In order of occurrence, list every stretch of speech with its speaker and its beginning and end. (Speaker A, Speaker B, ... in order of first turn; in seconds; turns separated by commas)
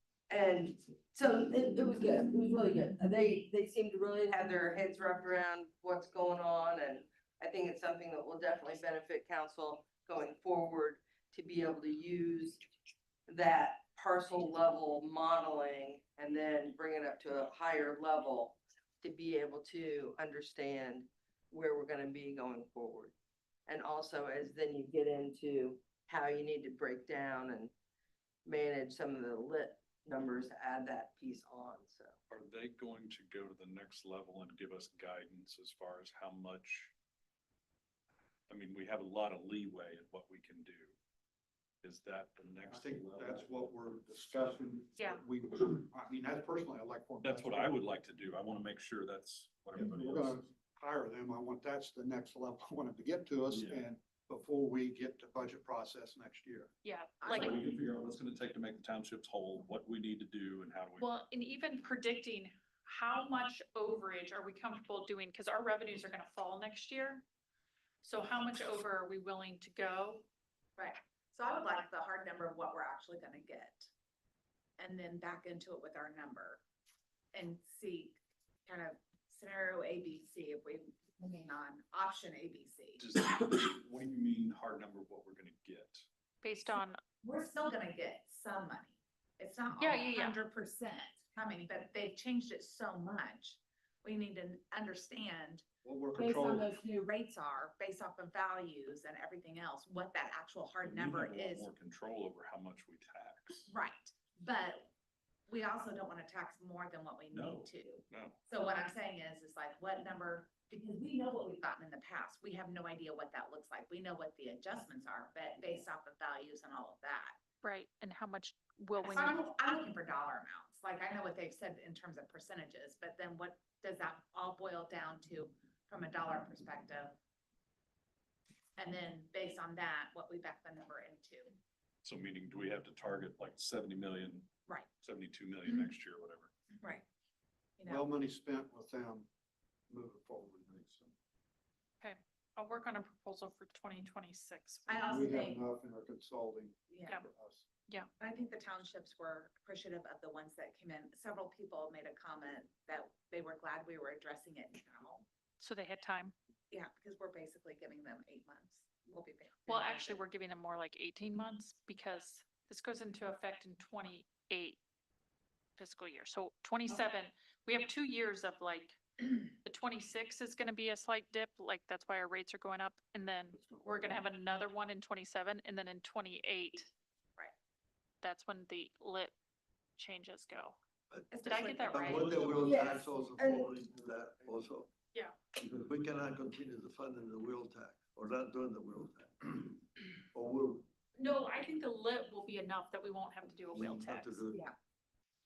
Speaker A: 0.3-12.7, Speaker A: 13.3-23.1, Speaker A: 23.7-27.7, Speaker A: 28.4-32.1, Speaker B: 32.3-36.9, Speaker B: 38.5-41.0, Speaker B: 41.8-43.4, Speaker C: 42.6-47.8, Speaker D: 45.0-45.2, Speaker B: 47.2-50.5, Speaker C: 49.8-56.7, Speaker B: 53.5-53.8, Speaker D: 56.8-57.6, Speaker E: 57.2-57.6, Speaker B: 57.3-61.1, Speaker D: 61.0-67.2, Speaker D: 68.0-70.2, Speaker E: 70.8-73.9, Speaker E: 74.8-76.6, Speaker E: 77.3-83.0, Speaker B: 83.0-86.1, Speaker D: 86.4-87.0, Speaker E: 87.2-95.6, Speaker D: 89.8-90.4, Speaker C: 95.8-96.7, Speaker E: 96.2-101.7, Speaker B: 100.8-103.7, Speaker E: 103.7-104.9, Speaker E: 105.5-117.4, Speaker B: 107.3-108.4, Speaker D: 117.6-119.4, Speaker E: 119.0-127.2, Speaker E: 128.8-131.6, Speaker B: 132.0-134.5, Speaker B: 135.0-136.5, Speaker E: 135.7-135.9, Speaker E: 136.8-137.1, Speaker E: 137.8-138.1, Speaker C: 137.9-139.3, Speaker C: 139.9-141.1, Speaker D: 142.0-145.2, Speaker E: 144.9-145.6, Speaker C: 144.9-147.7, Speaker E: 146.9-147.2, Speaker E: 148.2-155.3, Speaker D: 155.6-156.3, Speaker E: 156.7-160.2, Speaker D: 159.7-164.8, Speaker D: 165.8-176.9, Speaker C: 173.5-174.2, Speaker D: 178.2-179.3, Speaker D: 180.0-180.8, Speaker E: 181.3-183.0, Speaker D: 181.4-182.5, Speaker F: 181.9-184.9, Speaker A: 182.6-183.7, Speaker F: 185.6-190.9, Speaker D: 191.1-194.4, Speaker F: 193.7-194.6